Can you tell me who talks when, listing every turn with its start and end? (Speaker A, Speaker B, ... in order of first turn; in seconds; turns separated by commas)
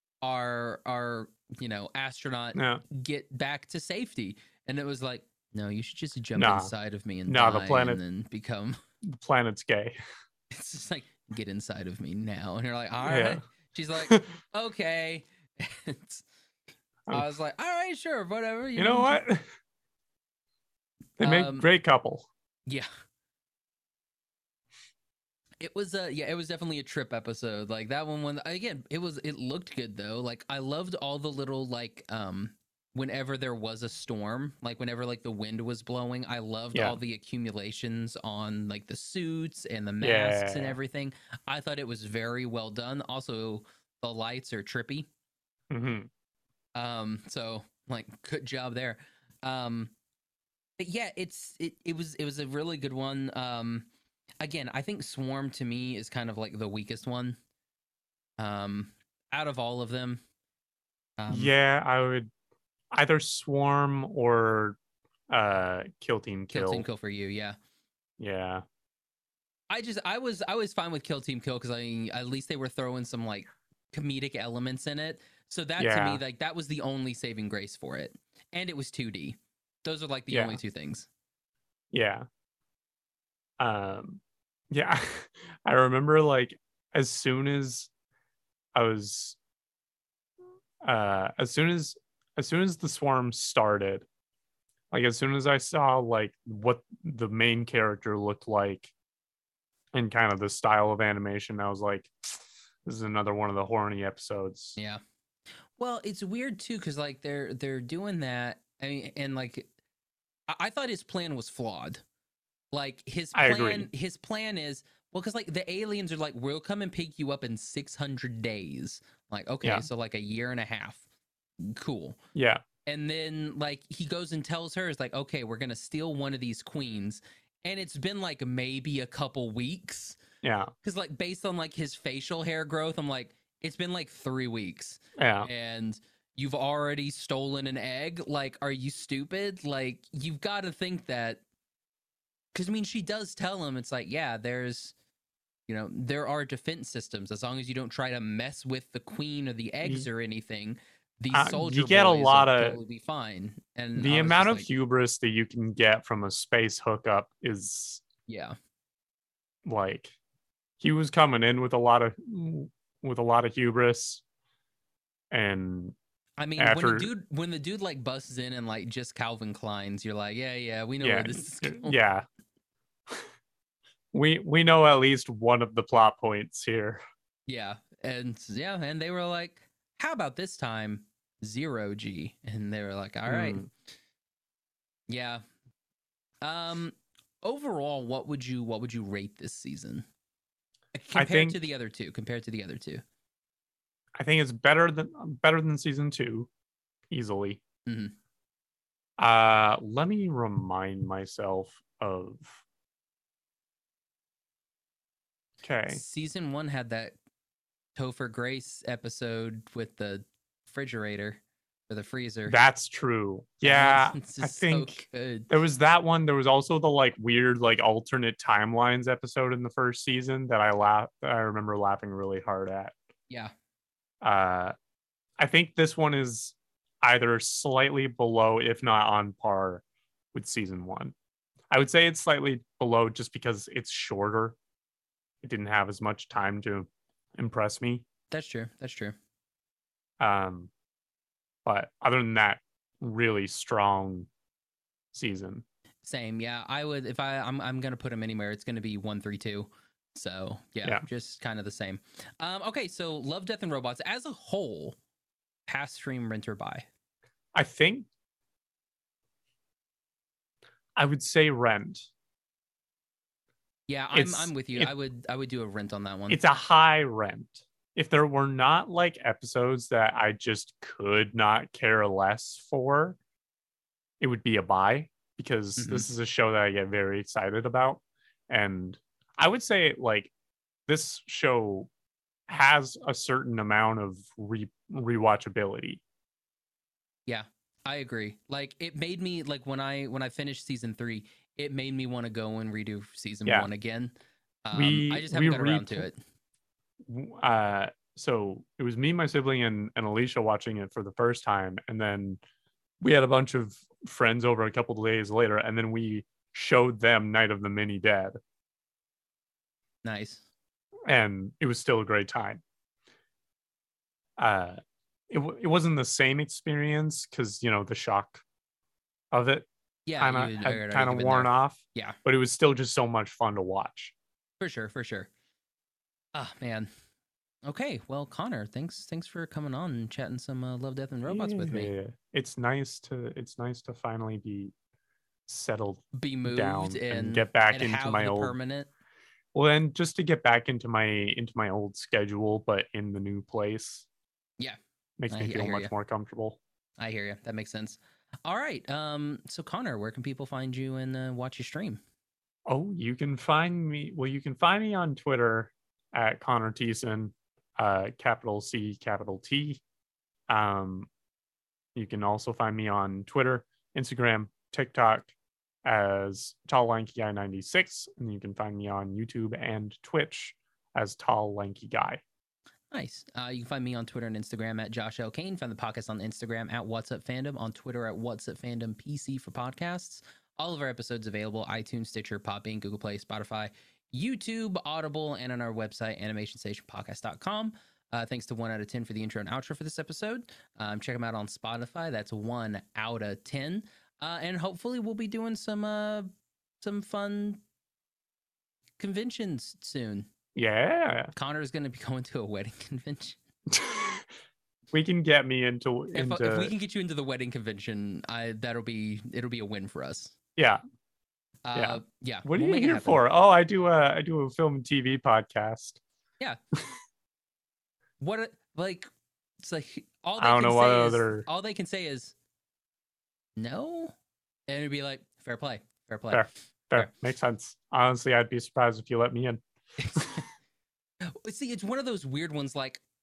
Speaker A: 0.2-8.8, Speaker B: 2.5-2.8, Speaker B: 6.3-6.7, Speaker B: 7.3-8.0, Speaker B: 9.0-10.0, Speaker A: 10.5-16.2, Speaker B: 13.0-13.4, Speaker A: 17.1-19.2, Speaker B: 18.8-19.5, Speaker B: 21.2-22.3, Speaker A: 21.2-21.7, Speaker A: 25.6-45.1, Speaker B: 40.0-40.8, Speaker B: 45.7-46.1, Speaker A: 46.7-49.9, Speaker A: 50.8-53.9, Speaker A: 54.4-57.4, Speaker A: 58.4-60.2, Speaker A: 61.2-61.5, Speaker B: 61.3-62.3, Speaker B: 62.9-64.8, Speaker B: 65.3-66.8, Speaker A: 66.5-67.5, Speaker B: 68.2-68.6, Speaker A: 69.7-81.1, Speaker B: 75.8-76.2, Speaker B: 80.3-80.6, Speaker B: 81.9-82.2, Speaker B: 83.6-87.9, Speaker B: 88.7-89.4, Speaker B: 90.8-94.0, Speaker B: 94.9-98.9, Speaker B: 99.9-104.8, Speaker A: 104.8-105.0, Speaker A: 105.8-109.7, Speaker A: 110.5-112.0, Speaker A: 112.7-121.0, Speaker B: 113.3-113.9, Speaker B: 119.6-119.9, Speaker A: 121.6-122.2, Speaker B: 122.3-122.6, Speaker A: 122.8-130.2, Speaker B: 130.4-130.7, Speaker A: 130.8-141.4, Speaker B: 135.2-135.5, Speaker A: 142.5-144.9, Speaker A: 145.7-154.7, Speaker B: 151.3-152.8, Speaker B: 154.0-158.0, Speaker A: 158.3-158.6, Speaker B: 159.6-160.1, Speaker B: 160.8-164.2, Speaker B: 165.3-165.9, Speaker A: 166.4-172.0, Speaker B: 166.6-167.1, Speaker B: 171.0-172.2, Speaker B: 174.1-177.0, Speaker A: 177.5-183.7, Speaker B: 183.2-183.7, Speaker A: 185.1-185.4, Speaker A: 186.4-190.1, Speaker A: 190.9-193.0, Speaker B: 191.1-191.6, Speaker B: 194.2-196.5, Speaker B: 197.1-197.6, Speaker A: 197.9-198.1, Speaker B: 199.2-202.6, Speaker B: 205.6-206.0, Speaker A: 205.9-207.1, Speaker A: 207.9-212.6, Speaker B: 212.5-222.9, Speaker A: 213.6-215.5, Speaker B: 224.2-224.7, Speaker B: 225.4-229.8, Speaker B: 230.3-231.1, Speaker B: 231.7-234.6, Speaker B: 235.4-238.0, Speaker A: 238.3-239.2, Speaker B: 240.2-240.7, Speaker B: 241.6-244.3, Speaker B: 245.1-245.6, Speaker A: 246.0-254.9, Speaker A: 255.7-256.9, Speaker B: 257.5-258.1, Speaker B: 260.9-262.1, Speaker A: 263.9-266.4, Speaker B: 264.1-264.9, Speaker B: 266.3-273.2, Speaker B: 274.2-280.3, Speaker A: 275.8-276.1, Speaker B: 280.9-281.9, Speaker B: 282.5-286.0, Speaker A: 287.3-294.1, Speaker A: 294.6-296.2, Speaker B: 294.7-296.1, Speaker B: 297.0-302.4, Speaker B: 303.0-308.4, Speaker A: 310.0-310.4, Speaker B: 311.1-312.6, Speaker B: 314.4-314.8, Speaker B: 315.3-318.4, Speaker B: 319.3-319.7, Speaker A: 320.1-322.2, Speaker B: 320.2-324.1, Speaker A: 324.6-325.3, Speaker A: 326.3-326.9, Speaker A: 327.6-331.9, Speaker B: 331.3-334.7, Speaker B: 335.5-338.5, Speaker A: 336.1-338.9, Speaker B: 339.5-344.1, Speaker B: 345.2-346.6, Speaker A: 345.3-345.9, Speaker A: 347.0-352.0, Speaker B: 352.7-359.8, Speaker B: 360.5-361.1, Speaker B: 361.9-365.3, Speaker B: 365.8-372.2, Speaker A: 372.9-396.3, Speaker A: 396.8-397.6, Speaker A: 399.0-400.3, Speaker B: 400.5-401.3, Speaker A: 401.3-403.4, Speaker B: 403.7-404.2, Speaker B: 404.9-406.7, Speaker A: 406.1-410.3, Speaker B: 410.6-410.8, Speaker A: 411.6-413.2, Speaker B: 411.7-416.0, Speaker A: 418.2-419.1, Speaker A: 419.6-422.3, Speaker B: 420.4-421.5, Speaker A: 423.6-424.1, Speaker A: 424.7-427.1, Speaker B: 426.3-429.6, Speaker A: 430.0-430.5, Speaker A: 431.2-433.0